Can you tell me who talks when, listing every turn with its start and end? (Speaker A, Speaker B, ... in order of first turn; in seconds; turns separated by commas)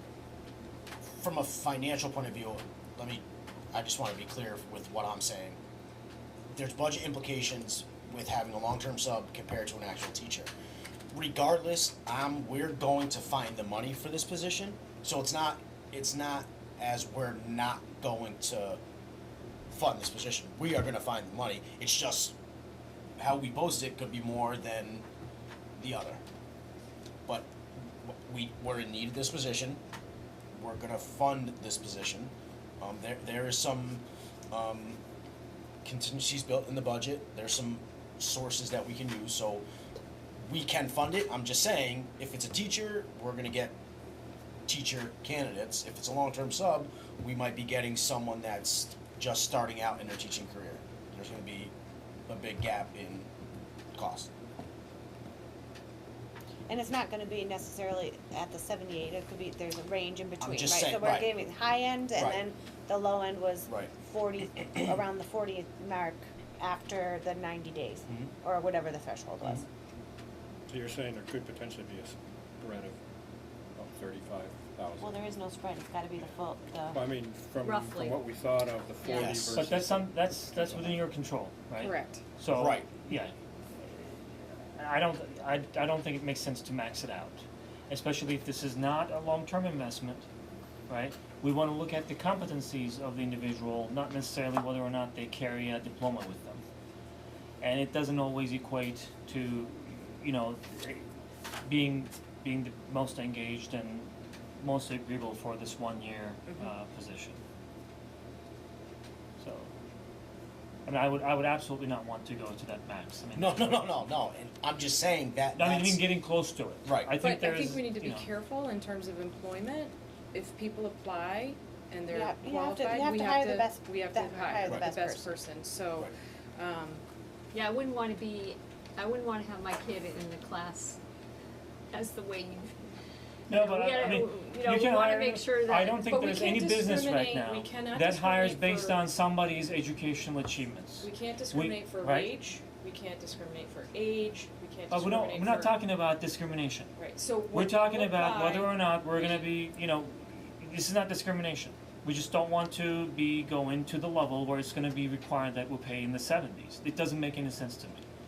Speaker A: 1.2-5.6, Speaker A: 6.5-10.5, Speaker A: 11.1-18.8, Speaker A: 19.7-22.3, Speaker A: 23.2-25.0, Speaker A: 25.8-26.2, Speaker A: 27.2-29.8, Speaker A: 30.5-35.0, Speaker A: 35.8-39.6, Speaker A: 40.4-43.7, Speaker A: 44.7-51.7, Speaker A: 52.3-53.3, Speaker A: 53.9-54.3, Speaker B: 56.7-69.7, Speaker A: 60.4-61.3, Speaker A: 62.1-62.4, Speaker A: 63.7-63.9, Speaker A: 64.6-64.9, Speaker C: 70.7-73.0, Speaker C: 73.8-75.2, Speaker B: 75.0-77.0, Speaker C: 76.9-81.0, Speaker D: 77.6-78.2, Speaker A: 79.1-79.6, Speaker E: 79.5-90.2, Speaker F: 81.8-82.2, Speaker A: 82.5-82.9, Speaker E: 90.9-96.6, Speaker E: 97.6-101.1, Speaker E: 101.6-107.4, Speaker E: 109.4-109.7, Speaker E: 110.8-113.9, Speaker A: 113.3-116.0, Speaker E: 115.5-118.3, Speaker A: 116.8-117.2, Speaker F: 117.2-127.0, Speaker B: 122.1-125.4, Speaker A: 124.6-124.9, Speaker D: 127.5-131.0, Speaker D: 131.9-132.8, Speaker E: 133.5-142.3, Speaker D: 133.5-136.4, Speaker F: 136.1-139.0, Speaker F: 141.0-145.7, Speaker E: 144.9-146.9, Speaker F: 147.0-149.4, Speaker E: 147.5-158.0